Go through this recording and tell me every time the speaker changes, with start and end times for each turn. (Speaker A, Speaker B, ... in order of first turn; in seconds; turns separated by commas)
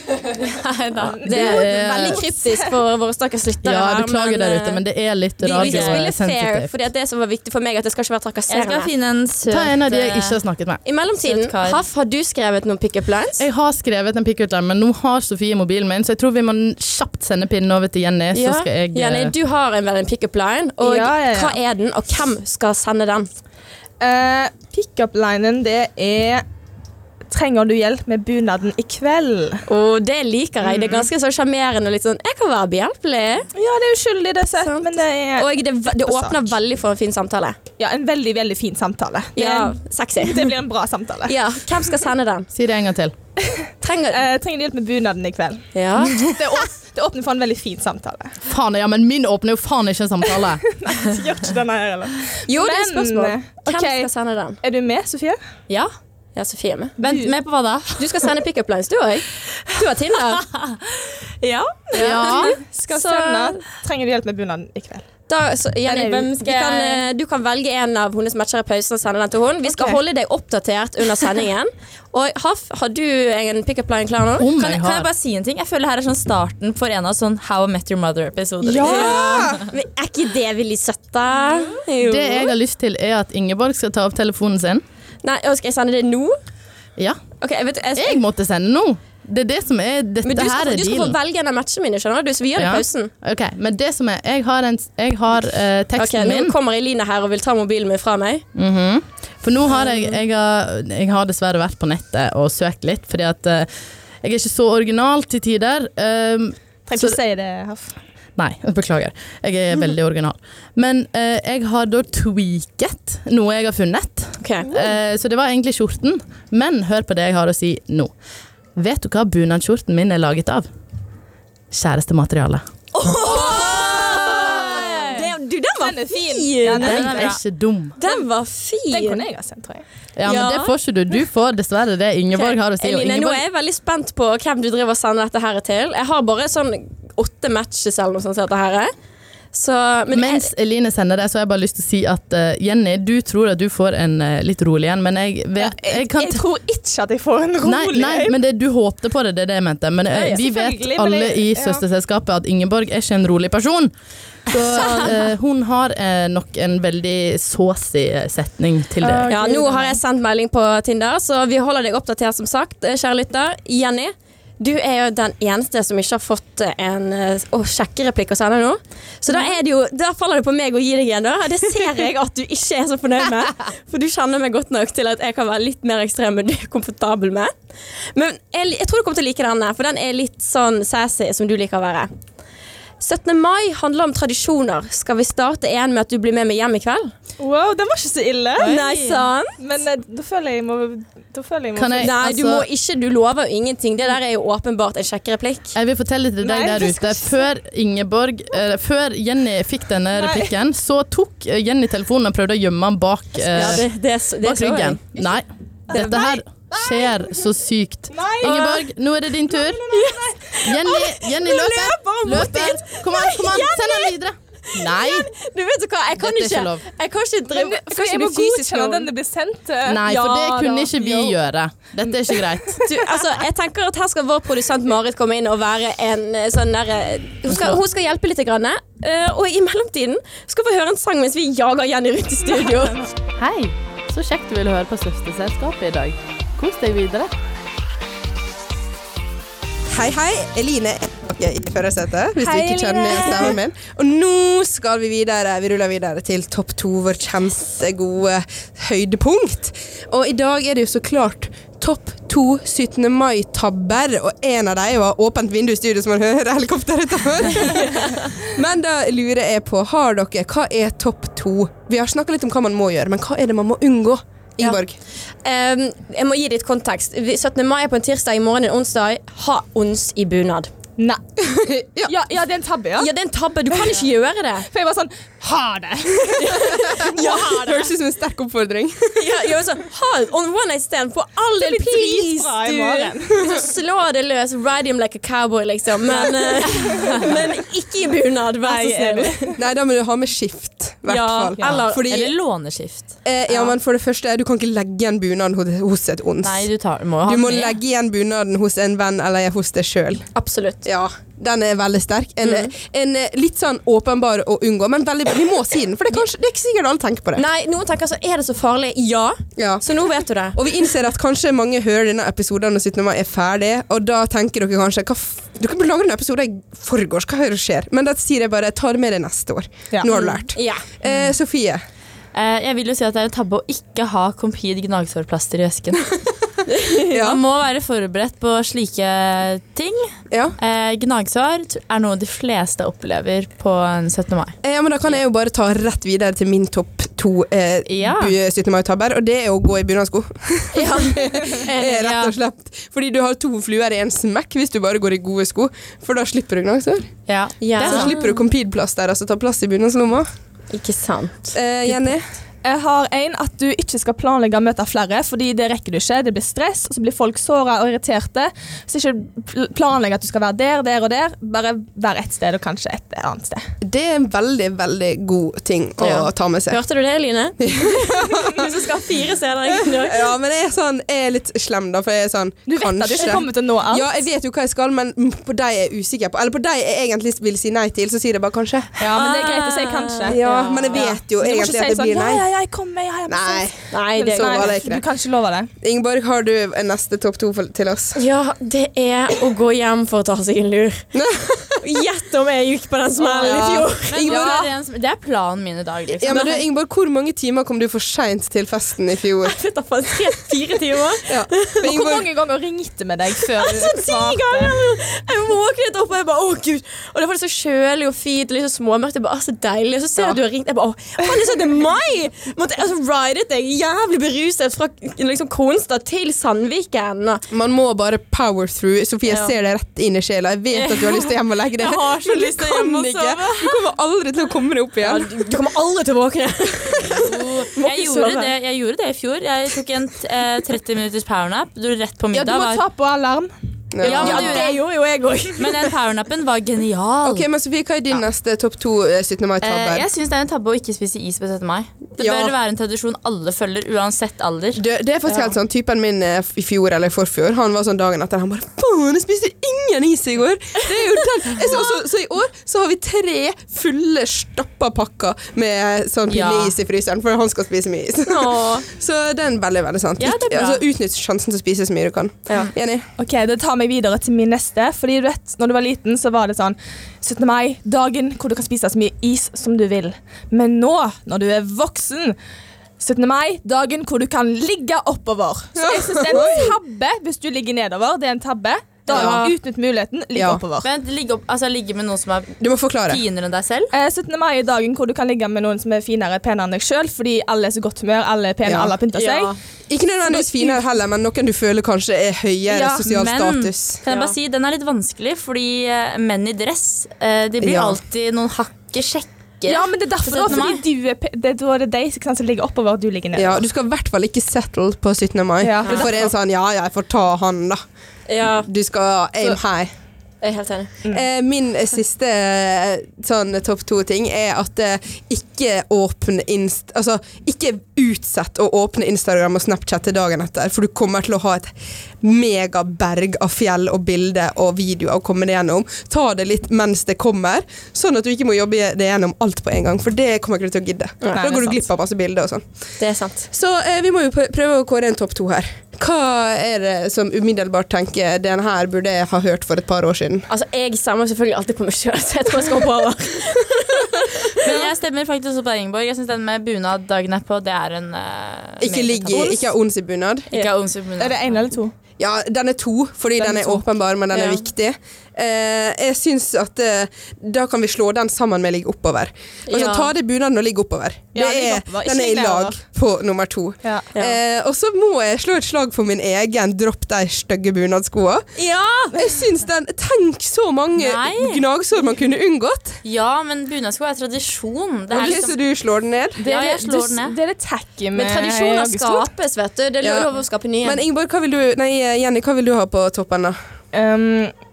Speaker A: 0.3-4.8, Speaker B: 1.1-2.7, Speaker C: 1.2-2.2, Speaker C: 3.6-6.8, Speaker A: 5.4-8.9, Speaker D: 5.5-6.1, Speaker D: 8.5-10.4, Speaker C: 9.5-10.8, Speaker A: 10.8-13.4, Speaker D: 11.2-11.8, Speaker C: 13.4-19.3, Speaker A: 18.3-23.3, Speaker B: 20.8-21.6, Speaker B: 24.0-26.4, Speaker B: 27.3-29.6, Speaker A: 29.7-33.5, Speaker B: 33.5-36.5, Speaker A: 34.6-37.6, Speaker B: 37.8-41.4, Speaker A: 39.4-40.5, Speaker A: 41.3-42.5, Speaker C: 42.5-43.1, Speaker B: 43.4-48.4, Speaker A: 43.8-44.2, Speaker A: 45.8-46.4, Speaker C: 48.5-50.6, Speaker B: 50.7-54.1, Speaker A: 52.5-54.6, Speaker B: 54.6-55.4, Speaker A: 56.4-57.0, Speaker D: 57.0-58.2, Speaker B: 57.0-57.3, Speaker A: 58.0-60.5, Speaker D: 60.4-60.8, Speaker D: 61.4-62.1, Speaker A: 61.9-63.6, Speaker C: 62.0-62.6, Speaker B: 62.3-65.0, Speaker A: 65.3-74.5, Speaker B: 65.9-66.3, Speaker D: 66.4-67.0, Speaker B: 69.7-70.0, Speaker C: 74.4-75.1, Speaker D: 74.5-79.5, Speaker B: 78.7-79.5, Speaker E: 78.8-79.6, Speaker A: 78.8-82.5, Speaker C: 82.0-84.8, Speaker A: 85.2-86.4, Speaker A: 87.4-88.2, Speaker C: 88.0-91.2, Speaker A: 90.2-93.1, Speaker C: 92.6-96.5, Speaker A: 96.0-98.5, Speaker C: 98.5-103.7, Speaker C: 104.2-107.2, Speaker B: 106.9-108.0, Speaker C: 108.4-118.1, Speaker A: 114.4-114.7, Speaker C: 118.8-120.7, Speaker C: 121.7-122.6, Speaker A: 123.0-127.2, Speaker B: 123.1-127.4, Speaker D: 123.3-125.2, Speaker D: 126.8-127.4, Speaker C: 126.8-128.0, Speaker A: 128.0-129.2, Speaker B: 128.9-129.8, Speaker C: 130.2-133.4, Speaker A: 130.2-130.7, Speaker A: 132.3-138.9, Speaker A: 139.5-140.5, Speaker C: 140.1-146.4, Speaker B: 145.6-148.4, Speaker C: 147.6-153.9, Speaker B: 150.1-151.8, Speaker C: 154.5-159.4, Speaker A: 154.7-155.1, Speaker B: 159.0-160.0, Speaker A: 159.3-177.5, Speaker A: 178.1-182.1, Speaker A: 183.0-187.1, Speaker B: 187.4-188.8, Speaker D: 188.6-189.3, Speaker A: 188.6-189.6, Speaker B: 189.6-192.2, Speaker C: 191.8-192.7, Speaker A: 192.0-195.8, Speaker C: 195.8-203.9, Speaker B: 196.4-197.4, Speaker B: 200.1-200.5, Speaker A: 203.5-205.4, Speaker C: 204.4-209.8, Speaker B: 205.9-206.3, Speaker A: 205.9-206.4, Speaker B: 208.1-208.8, Speaker A: 208.4-208.8, Speaker B: 209.5-210.5, Speaker A: 209.9-214.2, Speaker C: 210.6-215.3, Speaker A: 214.7-219.1, Speaker C: 216.2-216.8, Speaker B: 217.5-221.3, Speaker C: 219.8-222.9, Speaker A: 222.8-233.1, Speaker C: 227.5-227.8, Speaker B: 232.5-233.0, Speaker C: 233.4-237.3, Speaker E: 239.9-265.0, Speaker B: 242.4-243.6, Speaker A: 265.4-270.7, Speaker E: 271.4-272.1, Speaker B: 272.1-273.1, Speaker A: 273.0-274.7, Speaker B: 273.7-274.0, Speaker B: 274.7-277.7, Speaker A: 276.4-277.9, Speaker E: 277.0-279.2, Speaker A: 279.2-289.6, Speaker B: 281.6-283.4, Speaker B: 286.1-287.5, Speaker B: 288.6-289.6, Speaker E: 289.6-292.3, Speaker A: 291.1-292.0, Speaker D: 291.6-293.1, Speaker E: 293.2-296.7, Speaker D: 296.4-297.8, Speaker E: 297.2-300.2, Speaker A: 300.3-300.9, Speaker E: 300.8-307.4, Speaker A: 302.4-302.7, Speaker A: 307.4-310.7, Speaker E: 309.6-309.8, Speaker E: 310.6-321.8, Speaker A: 320.1-320.8, Speaker D: 322.3-326.1, Speaker A: 326.7-327.0, Speaker E: 327.1-327.4, Speaker D: 327.1-334.6, Speaker E: 330.3-330.6, Speaker E: 334.6-347.1, Speaker D: 337.9-338.3, Speaker A: 340.7-342.2, Speaker D: 342.0-342.3, Speaker D: 347.3-348.2, Speaker A: 347.6-348.3, Speaker E: 347.8-350.3, Speaker A: 350.7-351.5, Speaker E: 351.5-352.2, Speaker B: 352.6-363.7, Speaker E: 363.8-366.8, Speaker A: 366.0-370.3, Speaker E: 367.6-368.7, Speaker E: 369.8-379.1, Speaker B: 372.7-374.2, Speaker B: 379.0-385.7, Speaker A: 379.1-381.1, Speaker E: 380.3-382.4, Speaker E: 383.3-385.0, Speaker A: 383.9-384.8, Speaker E: 385.8-388.2, Speaker A: 388.1-391.1, Speaker E: 391.1-391.8, Speaker A: 391.8-394.4, Speaker E: 393.4-394.7, Speaker B: 393.4-393.7, Speaker D: 394.0-396.6, Speaker E: 396.2-399.6, Speaker A: 396.3-396.5, Speaker A: 399.4-401.9, Speaker E: 401.3-402.2, Speaker B: 401.8-404.8, Speaker A: 403.5-417.4, Speaker E: 417.5-425.3, Speaker D: 420.7-423.8, Speaker A: 425.0-428.5, Speaker D: 427.2-432.8, Speaker B: 432.3-433.5, Speaker E: 433.9-434.8, Speaker A: 434.0-435.9, Speaker D: 434.0-434.8, Speaker D: 435.6-437.5, Speaker E: 437.2-440.1, Speaker D: 439.6-444.8, Speaker E: 442.2-442.5, Speaker E: 444.8-463.1, Speaker D: 456.3-456.8, Speaker A: 458.3-458.9, Speaker D: 460.2-460.7, Speaker A: 460.2-460.8, Speaker B: 463.2-472.4, Speaker B: 473.0-480.9, Speaker E: 475.8-476.8, Speaker A: 479.1-479.5, Speaker E: 479.1-479.5, Speaker E: 480.3-480.6, Speaker D: 480.8-482.5, Speaker E: 482.6-483.2, Speaker D: 483.1-483.9, Speaker B: 483.9-489.5, Speaker E: 488.6-489.0, Speaker A: 489.1-489.6, Speaker E: 489.9-494.0, Speaker B: 490.2-490.8, Speaker D: 493.0-500.8, Speaker A: 494.1-494.3, Speaker E: 497.6-498.0, Speaker B: 499.7-503.6, Speaker E: 503.3-507.8, Speaker B: 505.6-506.3, Speaker A: 508.3-508.7, Speaker E: 508.6-509.9, Speaker A: 510.4-510.9, Speaker E: 511.1-532.6, Speaker B: 531.3-531.8, Speaker A: 533.0-533.5, Speaker E: 533.5-540.5, Speaker A: 540.5-544.8, Speaker D: 544.6-549.5, Speaker E: 548.8-550.5, Speaker B: 549.3-549.7, Speaker D: 550.5-551.7, Speaker B: 551.2-551.9, Speaker E: 552.2-568.5, Speaker B: 553.4-553.8, Speaker A: 554.3-554.6, Speaker A: 559.7-560.1, Speaker B: 561.3-562.8, Speaker B: 563.8-564.1, Speaker A: 568.6-569.2, Speaker E: 569.1-573.0, Speaker D: 571.0-571.6, Speaker D: 573.0-575.6, Speaker E: 575.1-576.4, Speaker D: 576.4-577.4, Speaker B: 576.4-579.3, Speaker A: 578.1-581.0, Speaker E: 580.0-580.3, Speaker E: 580.8-583.6, Speaker B: 583.9-584.5